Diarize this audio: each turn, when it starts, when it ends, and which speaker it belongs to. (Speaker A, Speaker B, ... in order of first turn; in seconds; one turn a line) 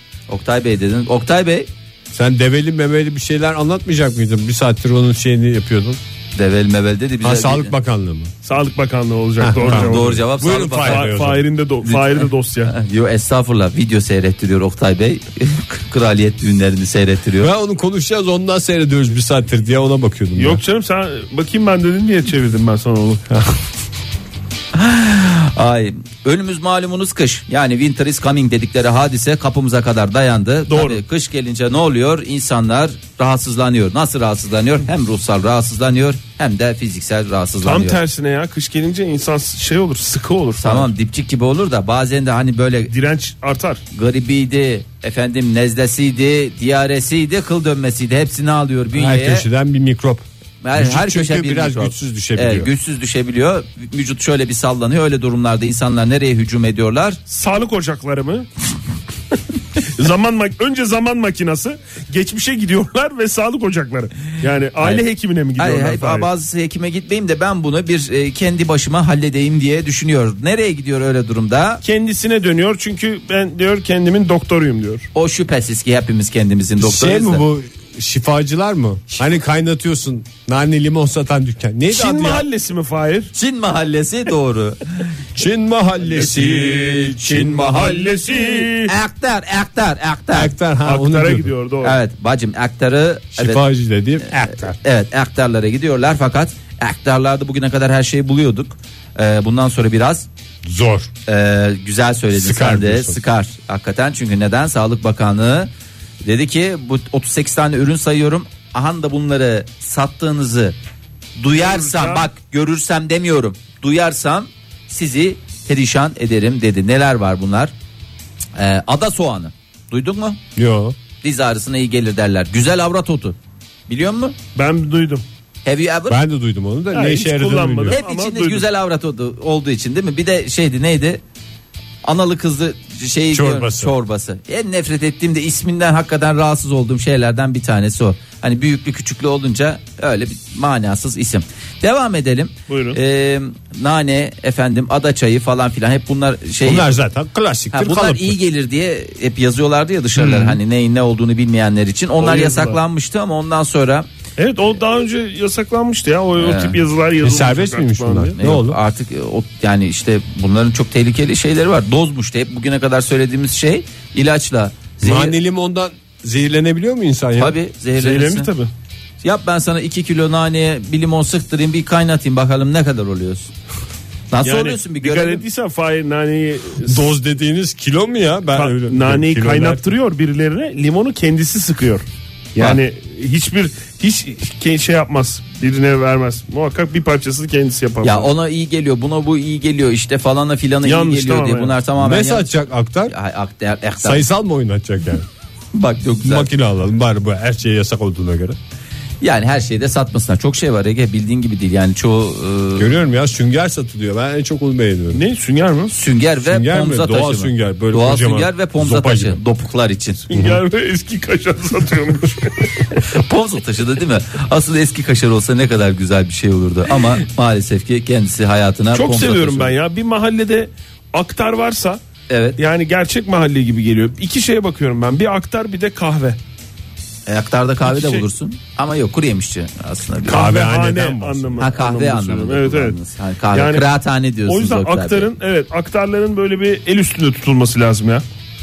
Speaker A: 0.3-1.7
Speaker B: 2.1-6.0
Speaker A: 6.3-7.7
Speaker B: 7.2-8.3
Speaker C: 8.4-10.2
Speaker B: 9.4-11.4
Speaker A: 9.6-11.1
Speaker C: 10.8-12.7
Speaker A: 11.8-17.5
Speaker B: 17.4-20.6
Speaker C: 20.4-23.5
Speaker A: 24.7-38.0
Speaker C: 30.7-31.0
Speaker C: 37.6-40.9
Speaker A: 40.6-42.9
Speaker C: 42.9-43.8
Speaker A: 43.9-49.5
Speaker B: 48.9-52.7
Speaker A: 50.6-57.2
Speaker C: 57.3-58.5
Speaker C: 59.8-66.3
Speaker A: 64.8-65.0
Speaker A: 65.6-71.8
Speaker C: 71.8-75.1
Speaker A: 75.1-77.4
Speaker B: 76.8-82.5
Speaker C: 81.9-83.3
Speaker A: 83.3-85.1
Speaker B: 85.3-88.7
Speaker C: 86.0-88.9
Speaker A: 88.8-90.5
Speaker B: 90.3-91.5
Speaker C: 90.8-92.0
Speaker A: 91.8-93.6
Speaker B: 93.3-94.8
Speaker A: 94.3-100.3
Speaker B: 100.6-101.1
Speaker A: 101.3-105.7
Speaker B: 102.3-103.2
Speaker A: 106.2-110.8
Speaker A: 111.4-117.7
Speaker C: 111.5-112.3
Speaker A: 118.6-120.4
Speaker B: 120.5-121.0
Speaker A: 121.2-123.3
Speaker A: 123.9-124.4
Speaker C: 124.5-125.2
Speaker A: 125.6-126.2
Speaker B: 126.1-128.0
Speaker C: 126.9-128.7
Speaker A: 127.9-131.2
Speaker A: 132.0-147.0
Speaker B: 133.3-133.9
Speaker C: 142.7-143.0
Speaker B: 146.6-148.4
Speaker A: 147.7-154.1
Speaker B: 150.2-150.5
Speaker C: 152.2-152.8
Speaker C: 154.4-158.4
Speaker A: 156.4-156.8
Speaker B: 157.2-158.8
Speaker A: 158.4-165.3
Speaker B: 165.0-167.6
Speaker A: 167.4-168.5
Speaker C: 167.9-168.7
Speaker A: 169.2-173.5
Speaker A: 174.3-175.4
Speaker C: 174.4-177.1
Speaker B: 176.8-179.8
Speaker C: 178.5-182.0
Speaker A: 182.6-182.8
Speaker C: 182.6-188.3
Speaker A: 188.0-194.2
Speaker C: 190.8-191.8
Speaker B: 192.0-193.1
Speaker B: 194.0-195.3
Speaker A: 195.7-196.5
Speaker B: 196.2-198.6
Speaker A: 199.2-202.9
Speaker B: 202.8-205.2
Speaker C: 205.1-205.9
Speaker A: 205.9-210.2
Speaker B: 206.4-209.4
Speaker C: 210.3-212.9
Speaker B: 210.3-210.6
Speaker A: 212.9-219.7
Speaker C: 218.9-222.0
Speaker A: 222.3-222.6
Speaker C: 222.6-226.4
Speaker A: 227.3-230.5
Speaker C: 227.8-228.3
Speaker C: 230.2-233.0
Speaker B: 230.3-231.6
Speaker A: 231.6-235.3
Speaker C: 233.5-233.9
Speaker C: 234.4-238.2